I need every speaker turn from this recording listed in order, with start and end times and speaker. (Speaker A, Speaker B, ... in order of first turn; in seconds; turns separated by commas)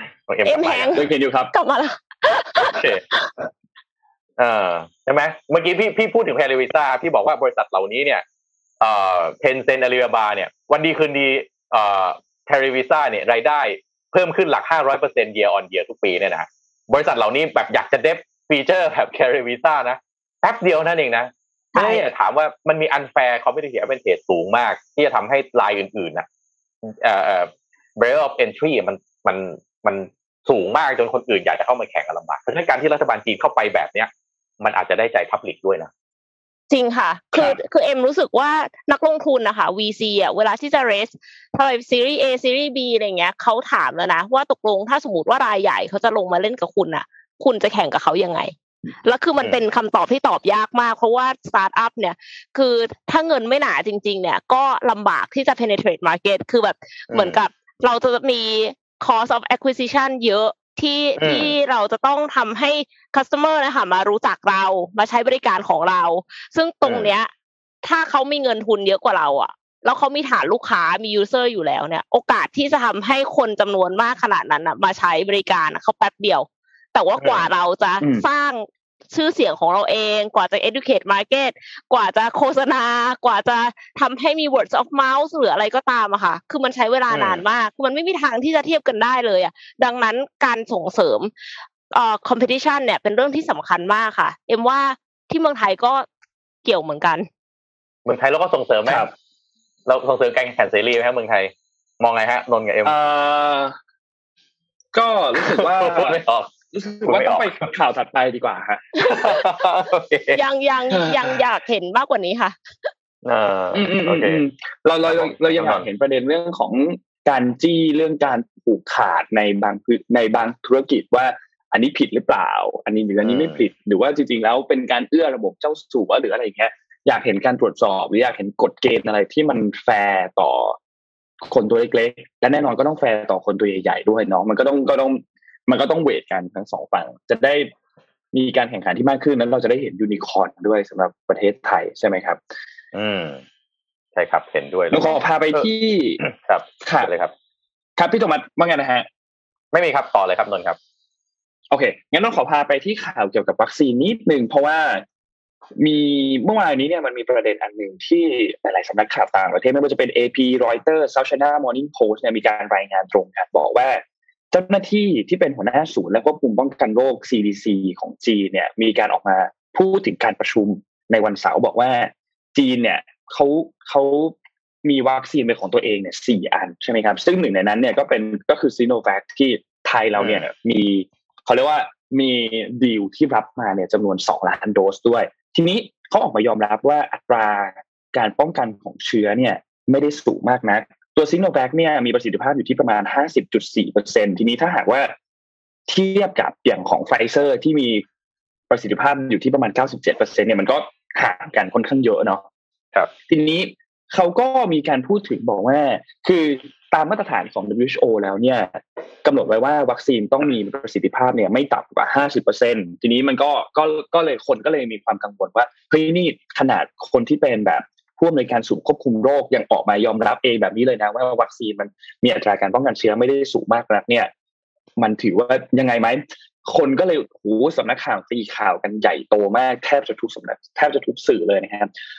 Speaker A: 0.3-1.0, Speaker B: 0.5-3.3, Speaker C: 0.9-1.5, Speaker A: 2.7-3.0, Speaker A: 4.4-8.2, Speaker A: 8.8-26.2, Speaker B: 21.8-22.1, Speaker A: 26.8-35.9, Speaker B: 36.7-48.5, Speaker B: 49.0-67.3, Speaker A: 57.1-57.4, Speaker A: 61.2-61.5, Speaker B: 67.8-91.3, Speaker A: 77.2-77.5, Speaker A: 87.1-87.4, Speaker B: 91.9-96.1, Speaker B: 96.6-97.3, Speaker A: 98.0-99.1, Speaker C: 98.9-99.1, Speaker A: 99.9-102.9, Speaker C: 102.8-103.7, Speaker C: 104.9-106.2, Speaker A: 105.4-106.5, Speaker C: 106.7-108.9, Speaker A: 107.0-107.5, Speaker B: 109.0-109.5, Speaker A: 109.0-110.4, Speaker B: 110.3-112.9, Speaker C: 110.9-111.4, Speaker A: 113.2-114.4, Speaker C: 113.7-130.8, Speaker A: 115.0-115.9, Speaker A: 123.2-123.7, Speaker C: 131.4-137.7, Speaker C: 138.3-142.4, Speaker A: 142.9-143.4, Speaker A: 144.2-145.7, Speaker C: 144.9-146.2, Speaker A: 146.2-147.3, Speaker C: 146.8-147.1, Speaker C: 148.0-149.1, Speaker A: 149.7-150.8, Speaker C: 151.7-155.1, Speaker C: 155.8-195.1, Speaker A: 180.2-180.4, Speaker C: 195.9-198.0, Speaker C: 198.7-202.4, Speaker C: 203.3-224.3, Speaker C: 225.0-231.9